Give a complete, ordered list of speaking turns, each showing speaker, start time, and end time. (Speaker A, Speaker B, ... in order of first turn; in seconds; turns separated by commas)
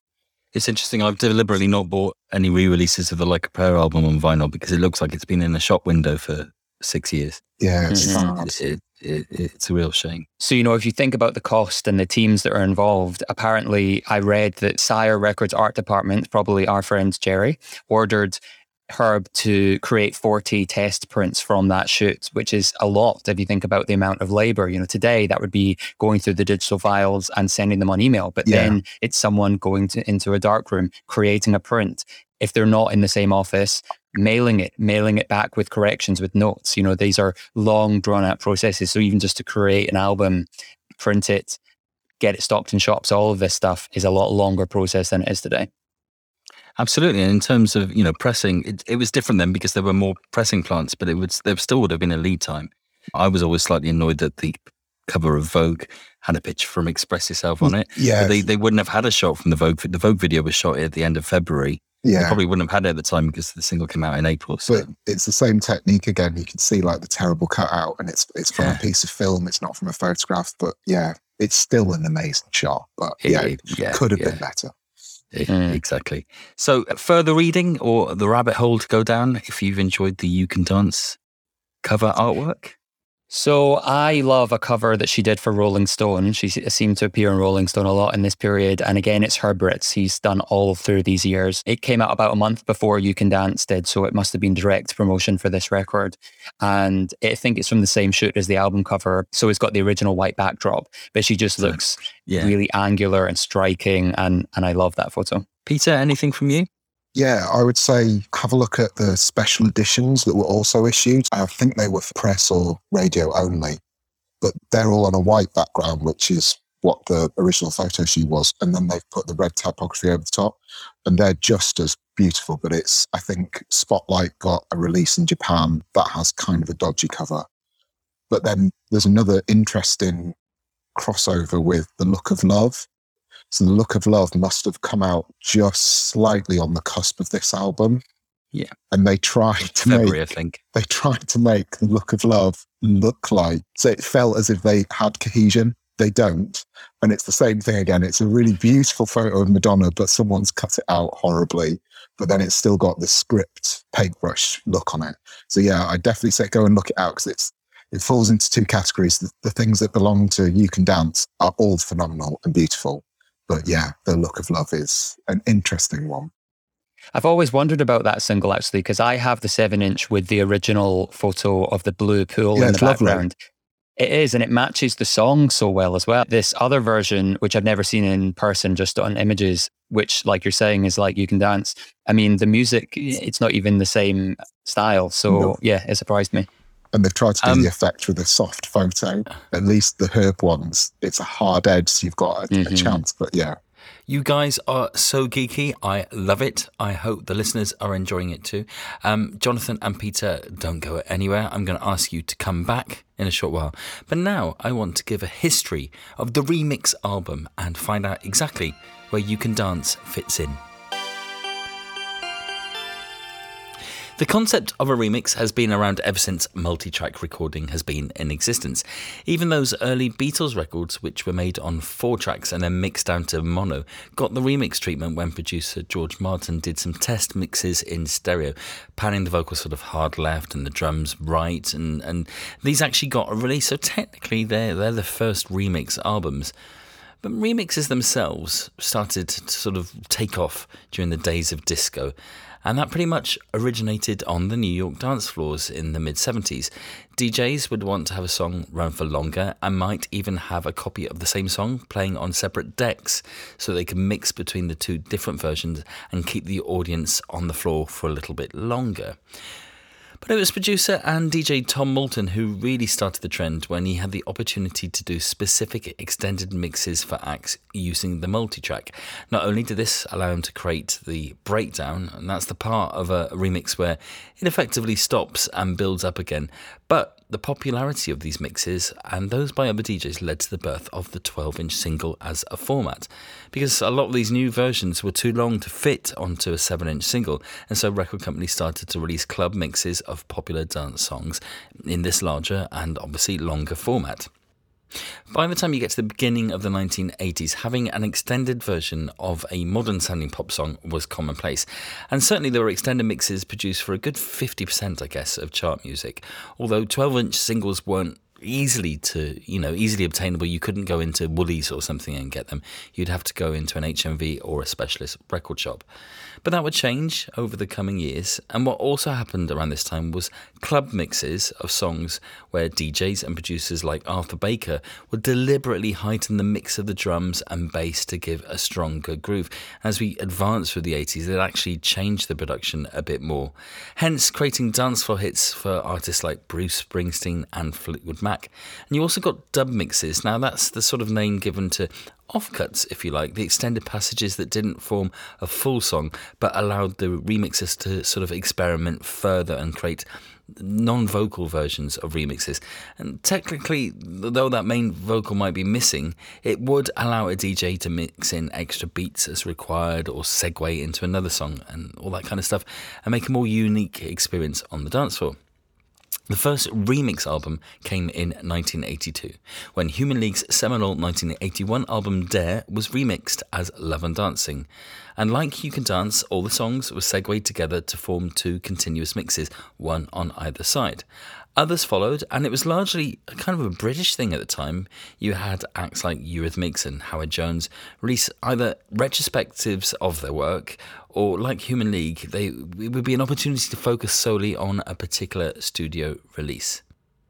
Speaker A: 0.5-10.3, Speaker B: 7.6-8.5, Speaker C: 7.9-8.2, Speaker C: 10.4-18.4, Speaker C: 18.9-40.5, Speaker B: 28.4-28.8, Speaker C: 41.0-41.6, Speaker C: 42.2-45.7, Speaker A: 46.8-64.9, Speaker B: 57.6-58.4, Speaker B: 62.0-62.4, Speaker B: 64.7-74.7, Speaker A: 68.5-68.8, Speaker A: 73.2-74.4, Speaker A: 75.3-81.2, Speaker C: 75.5-75.8, Speaker A: 81.8-82.7, Speaker C: 83.3-105.5, Speaker A: 101.6-102.5, Speaker A: 105.7-106.7, Speaker B: 107.1-113.8, Speaker B: 114.4-127.5, Speaker B: 128.3-130.3, Speaker B: 130.9-132.9, Speaker B: 133.5-138.0, Speaker B: 138.9-140.2, Speaker A: 139.7-140.6, Speaker B: 140.7-166.3, Speaker C: 167.1-173.3, Speaker B: 172.5-173.2, Speaker C: 174.0-186.5, Speaker B: 185.3-185.6, Speaker B: 186.9-193.6, Speaker A: 187.4-187.7, Speaker C: 192.5-193.0, Speaker A: 194.1-210.6, Speaker A: 214.2-236.5, Speaker A: 237.2-259.2, Speaker A: 260.2-294.3, Speaker A: 295.3-315.8, Speaker A: 316.4-365.4, Speaker A: 366.3-381.0, Speaker A: 381.6-396.8